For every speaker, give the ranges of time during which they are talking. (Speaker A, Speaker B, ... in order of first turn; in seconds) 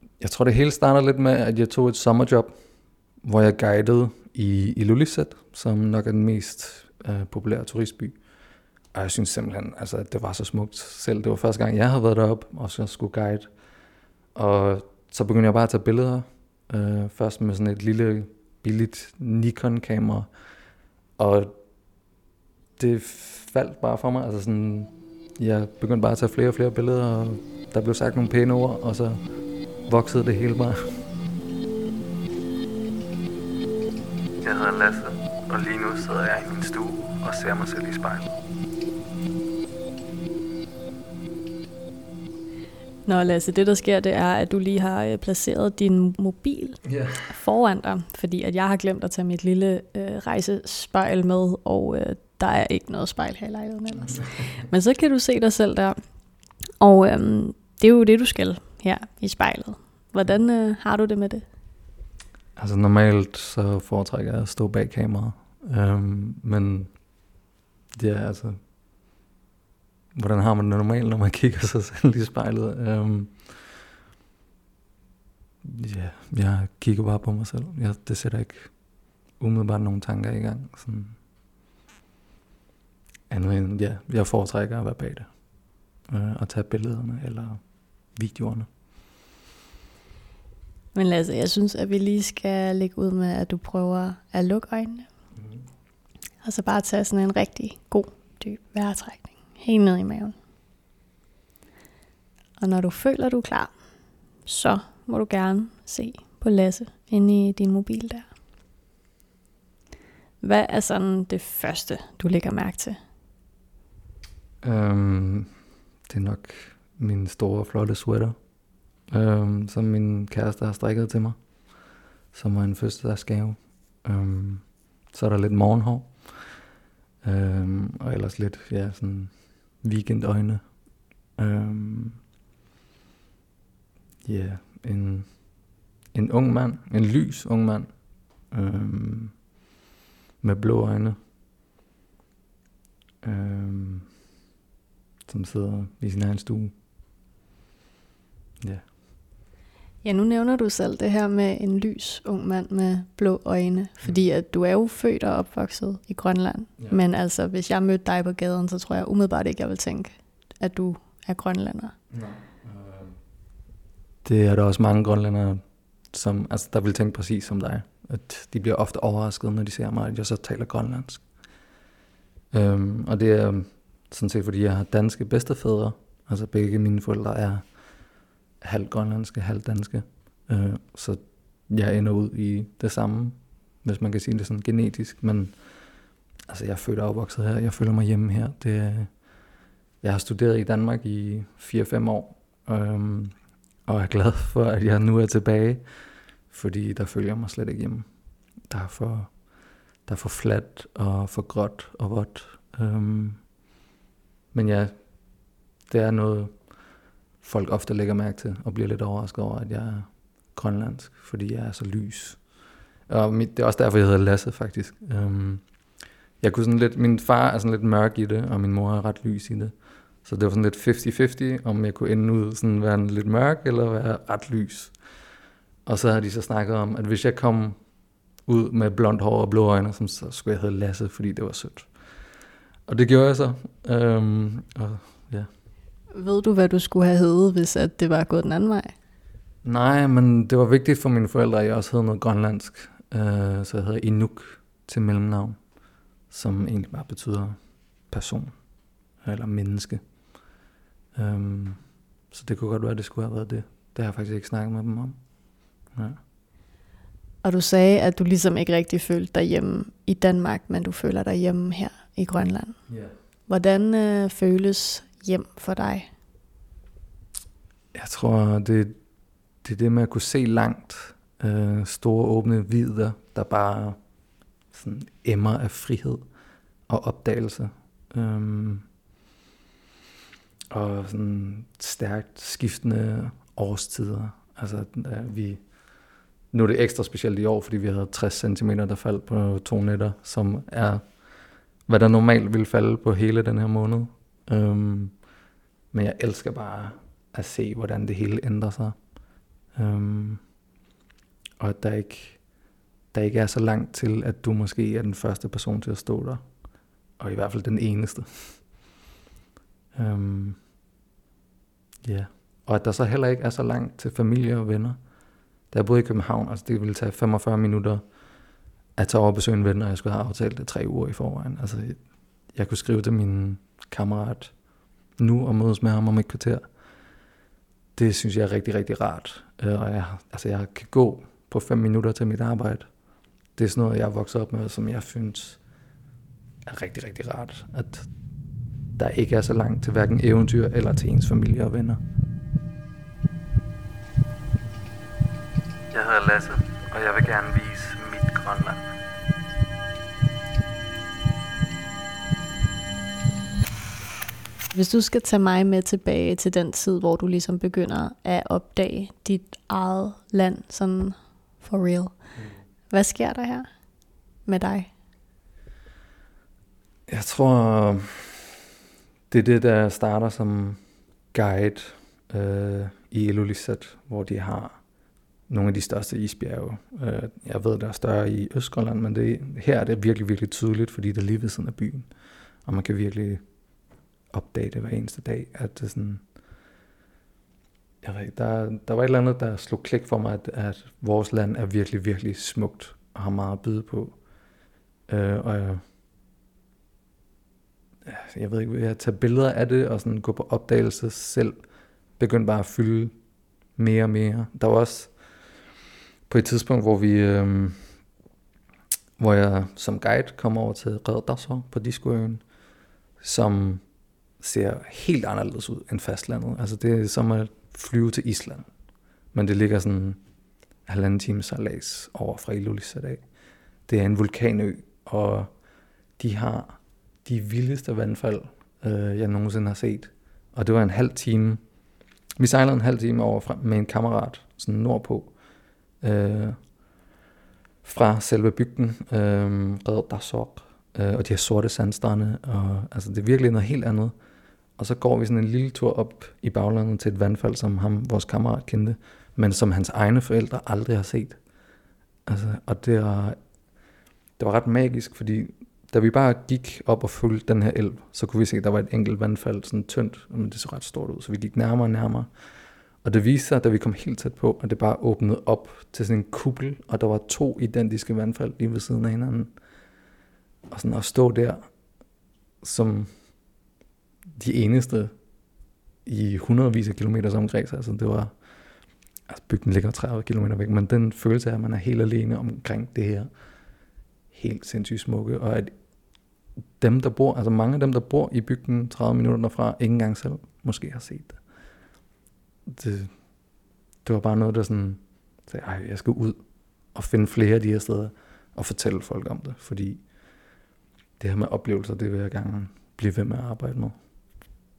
Speaker A: 0.2-2.5, 3.2-8.1, 8.9-13.5, 14.3-20.3, 21.2-21.5, 22.8-29.2, 29.9-31.0, 34.4-38.3, 46.8-47.4, 53.9-54.6, 62.6-66.9, 67.9-68.6, 70.1-73.6, 75.6-78.7, 79.4-81.2, 83.3-85.3, 86.1-87.6, 88.1-88.7, 95.4-95.6, 114.6-115.5, 116.1-118.3, 119.1-121.3, 122.3-126.5, 127.2-130.6, 131.3-132.2, 134.2-135.3, 136.1-137.9, 138.5-139.3, 140.4-141.2, 143.2-144.1, 145.3-146.7, 148.6-148.9, 162.1-163.2, 164.2-171.2, 172.5-177.7, 178.6-185.6, 186.5-189.1, 190.0-195.8, 196.5-198.1, 198.7-199.3, 200.1-203.4, 204.5-204.9, 205.9-206.6, 207.4-212.4, 213.1-215.6, 216.4-224.9, 225.8-227.8, 228.5-231.9, 232.9-235.5, 239.6-245.6, 246.3-247.6, 248.1-248.6, 249.2-250.0, 251.1-255.2, 255.9-256.2, 262.9-263.1, 267.9-268.9, 269.6-274.0, 274.7-276.2, 276.9-278.9, 280.7-285.6, 286.5-291.1, 291.9-295.1, 295.9-299.0, 299.7-300.4, 301.6-302.4, 303.1-306.4, 307.2-308.6, 309.9-310.6, 312.0-315.0, 315.7-318.0, 319.0-322.0, 322.5-324.5, 325.2-326.6, 327.9-332.9, 333.6-335.6, 336.6-338.1, 339.0-342.0, 345.9-348.8, 362.3-362.6, 367.1-368.5, 369.3-370.8, 371.3-374.8, 375.5-382.1, 382.6-383.4, 384.3-386.2, 388.0-394.2, 395.1-395.8, 398.1-401.5, 402.2-403.1, 403.8-405.1, 406.3-407.8, 409.2-412.4, 413.2-413.8, 414.4-418.7, 419.3-420.2, 420.9-423.2, 423.9-425.5, 426.2-431.6, 432.4-435.3, 436.0-436.6, 437.8-444.1, 444.8-451.4, 452.3-453.4, 454.4-462.3, 463.0-469.5, 470.7-471.7, 472.6-473.1, 474.4-475.1, 476.0-478.3, 479.3-483.3, 484.3-485.7, 486.8-491.4, 492.7-493.1, 494.0-496.4, 496.9-500.0, 501.2-503.9
Speaker B: 43.0-56.0, 56.8-61.4, 90.9-95.1, 96.4-100.3, 102.6-103.7, 104.5-108.3, 110.4-113.0, 150.0-161.9, 236.1-238.9, 257.4-262.8, 263.5-266.1, 354.7-362.1, 362.9-363.7, 364.4-364.9